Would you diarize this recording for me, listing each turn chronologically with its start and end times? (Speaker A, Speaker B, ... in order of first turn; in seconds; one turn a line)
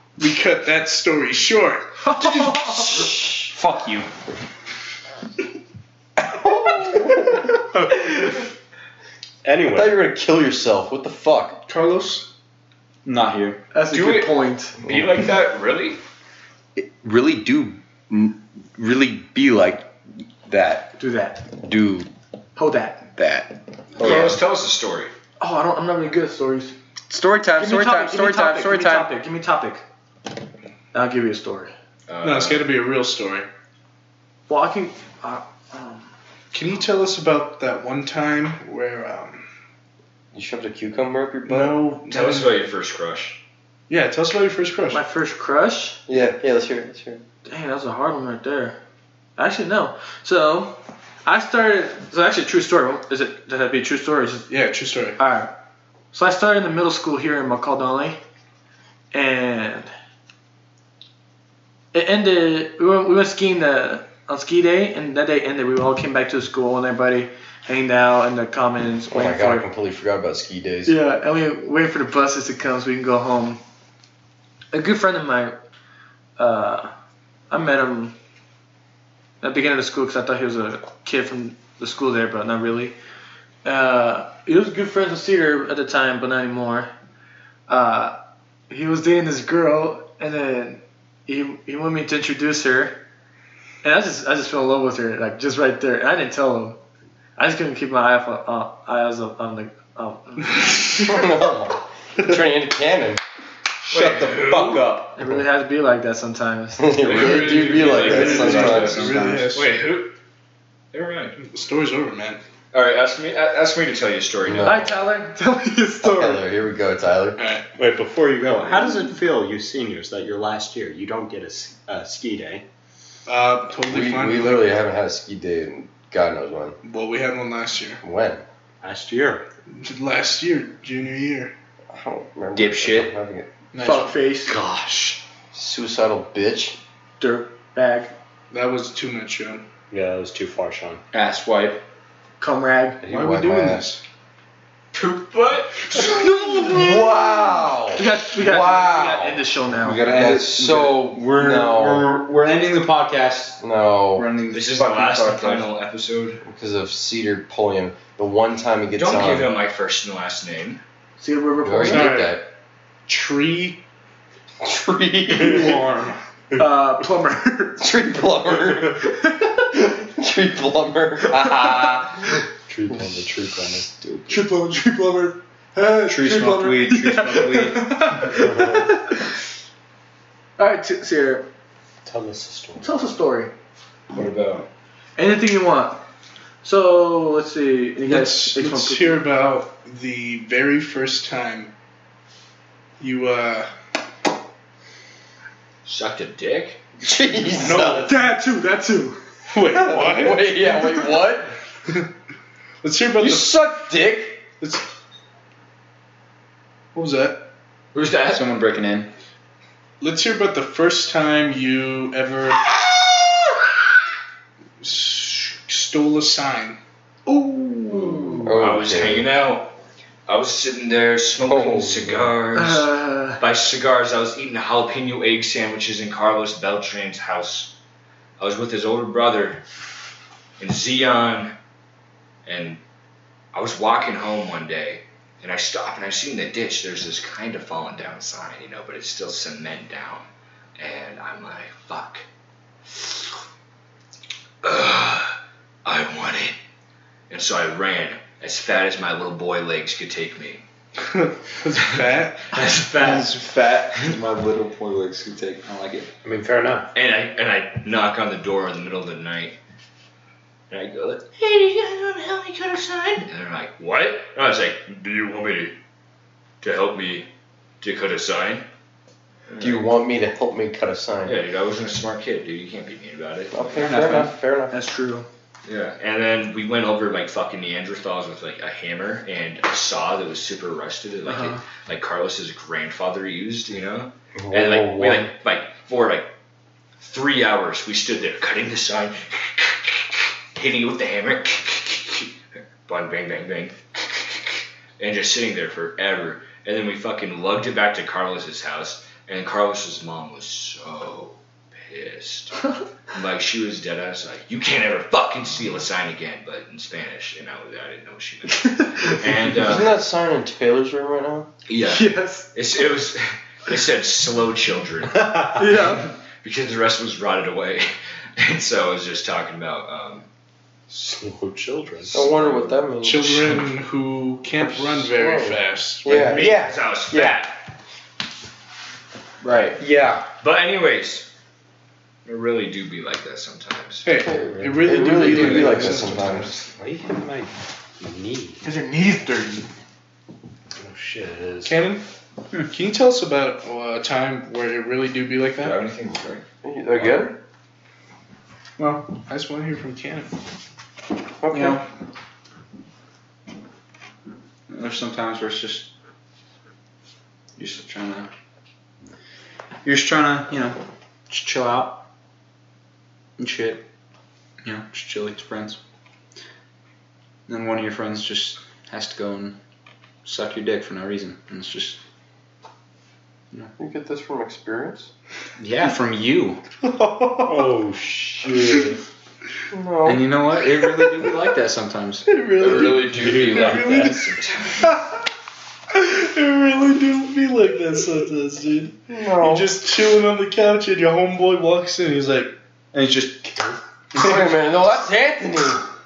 Speaker A: 0.2-2.8
Speaker B: 2.2-2.5
Speaker C: 2.7-4.1
Speaker D: 2.9-3.3
Speaker D: 6.3-7.5
Speaker A: 7.7-8.1
Speaker E: 9.4-10.0
Speaker D: 9.7-11.6
Speaker A: 11.7-12.3
Speaker C: 13.0-13.6
Speaker B: 13.7-14.8
Speaker F: 13.9-16.0
Speaker D: 16.8-19.9
Speaker D: 20.4-20.9
Speaker B: 21.0-21.4
Speaker D: 21.5-22.1
Speaker B: 22.6-23.0
Speaker D: 23.1-24.4
Speaker F: 24.0-25.1
Speaker B: 25.4-26.7
Speaker D: 27.1-29.1
Speaker B: 27.6-29.8
Speaker B: 30.9-31.7
Speaker F: 32.1-32.6
Speaker A: 32.2-33.5
Speaker B: 34.5-36.1
Speaker A: 36.5-39.4
Speaker D: 40.3-41.8
Speaker A: 41.5-42.5
Speaker F: 42.1-43.4
Speaker A: 43.9-45.0
Speaker B: 44.9-46.0
Speaker D: 46.1-47.2
Speaker B: 47.5-48.8
Speaker B: 49.4-54.5
Speaker A: 54.5-55.2
Speaker B: 55.2-55.5
Speaker B: 56.1-58.2
Speaker B: 59.1-59.9
Speaker B: 61.9-69.7
Speaker D: 69.1-71.0
Speaker B: 70.8-73.6
Speaker B: 74.7-75.6
Speaker B: 76.4-76.9
Speaker B: 77.5-78.1
Speaker B: 79.4-83.0
Speaker B: 83.6-86.9
Speaker B: 87.7-88.2
Speaker B: 88.7-93.0
Speaker B: 93.8-96.8
Speaker B: 97.4-101.0
Speaker D: 101.0-103.2
Speaker F: 103.9-104.8
Speaker A: 104.0-104.5
Speaker C: 104.1-105.1
Speaker B: 105.1-107.0
Speaker D: 106.8-109.5
Speaker F: 107.0-110.1
Speaker A: 107.0-109.7
Speaker C: 107.9-109.5
Speaker F: 110.9-111.4
Speaker A: 111.4-112.4
Speaker F: 112.7-114.9
Speaker D: 114.4-114.9
Speaker B: 114.6-116.5
Speaker D: 116.0-117.4
Speaker A: 117.4-117.7
Speaker E: 117.8-122.6
Speaker A: 123.2-124.7
Speaker D: 123.8-126.8
Speaker A: 126.8-128.0
Speaker D: 128.0-128.4
Speaker E: 128.8-129.4
Speaker A: 129.7-131.5
Speaker D: 131.9-133.5
Speaker F: 132.5-133.1
Speaker A: 133.7-134.2
Speaker B: 133.8-134.5
Speaker E: 134.4-135.2
Speaker D: 135.5-136.8
Speaker B: 137.2-138.1
Speaker A: 138.5-139.6
Speaker E: 139.9-141.0
Speaker C: 141.1-141.8
Speaker B: 142.4-143.0
Speaker D: 143.0-143.9
Speaker A: 143.1-144.0
Speaker F: 144.9-146.3
Speaker B: 145.9-146.9
Speaker A: 146.0-146.3
Speaker D: 146.3-149.4
Speaker B: 147.9-150.0
Speaker C: 149.8-153.6
Speaker D: 150.0-152.1
Speaker D: 153.6-154.3
Speaker C: 154.2-155.7
Speaker F: 154.5-156.4
Speaker D: 156.4-159.5
Speaker F: 158.9-160.8
Speaker B: 161.2-162.3
Speaker D: 161.6-162.5
Speaker A: 161.9-162.3
Speaker A: 163.1-163.8
Speaker D: 164.6-165.8
Speaker A: 165.3-166.2
Speaker B: 166.6-167.9
Speaker D: 167.8-172.3
Speaker E: 172.7-174.0
Speaker B: 174.3-179.2
Speaker A: 174.3-174.6
Speaker C: 176.1-177.9
Speaker E: 178.4-178.9
Speaker B: 180.6-181.5
Speaker E: 182.1-182.8
Speaker B: 182.8-183.5
Speaker F: 184.1-184.7
Speaker B: 185.2-186.0
Speaker B: 186.6-189.2
Speaker A: 188.1-191.7
Speaker A: 193.0-193.7
Speaker F: 195.8-196.8
Speaker D: 197.0-198.1
Speaker A: 197.6-198.3
Speaker B: 197.7-199.2
Speaker A: 199.5-200.5
Speaker D: 199.5-201.5
Speaker A: 202.8-203.6
Speaker D: 203.2-204.4
Speaker A: 206.9-207.4
Speaker F: 207.9-208.4
Speaker C: 208.3-209.1
Speaker A: 210.0-213.3
Speaker A: 214.8-216.8
Speaker B: 217.3-218.6
Speaker D: 218.4-219.3
Speaker F: 218.4-219.7
Speaker F: 220.3-227.7
Speaker D: 221.4-222.3
Speaker B: 222.5-223.4
Speaker F: 228.4-229.6
Speaker F: 230.6-231.5
Speaker F: 232.4-232.8
Speaker F: 233.5-242.2
Speaker F: 244.6-246.6
Speaker F: 247.3-250.6
Speaker A: 251.0-252.8
Speaker F: 252.5-253.3
Speaker C: 252.9-256.1
Speaker E: 256.2-256.9
Speaker F: 256.9-259.6
Speaker F: 260.7-265.7
Speaker F: 266.6-267.3
Speaker F: 267.8-268.6
Speaker F: 269.5-269.9
Speaker D: 269.6-271.4
Speaker F: 271.2-273.9
Speaker D: 273.5-274.8
Speaker C: 273.7-274.3
Speaker B: 274.7-275.3
Speaker F: 275.6-286.3
Speaker B: 281.2-281.6
Speaker D: 284.4-285.3
Speaker F: 287.0-292.3
Speaker F: 292.9-310.0
Speaker B: 308.5-309.0
Speaker D: 309.5-311.5
Speaker F: 311.7-320.3
Speaker B: 311.8-312.5
Speaker B: 315.5-316.1
Speaker E: 320.9-322.2
Speaker F: 322.1-322.8
Speaker D: 322.1-323.5
Speaker A: 323.0-326.3
Speaker D: 324.6-326.6
Speaker F: 326.1-327.5
Speaker C: 329.4-330.2
Speaker F: 330.4-331.3
Speaker F: 332.2-334.1
Speaker A: 334.0-336.3
Speaker D: 334.2-336.5
Speaker E: 334.3-338.6
Speaker B: 338.6-339.7
Speaker E: 340.8-341.7
Speaker A: 341.6-342.0
Speaker A: 342.6-345.8
Speaker F: 345.6-346.4
Speaker D: 346.6-347.4
Speaker A: 348.8-350.3
Speaker D: 351.4-351.8
Speaker C: 351.5-351.8
Speaker C: 354.7-355.9
Speaker C: 357.6-358.3
Speaker C: 359.8-360.8
Speaker C: 361.3-362.0
Speaker C: 363.4-363.8
Speaker C: 364.6-365.8
Speaker C: 367.5-369.6
Speaker C: 370.2-372.0
Speaker D: 373.8-375.1
Speaker C: 375.6-376.6
Speaker A: 376.8-377.8
Speaker E: 377.4-379.0
Speaker D: 379.7-380.6
Speaker C: 380.0-382.3
Speaker A: 382.2-385.1
Speaker F: 382.6-384.9
Speaker E: 382.6-384.3
Speaker A: 385.9-392.5
Speaker D: 389.1-389.7
Speaker C: 392.9-393.7
Speaker D: 394.1-395.9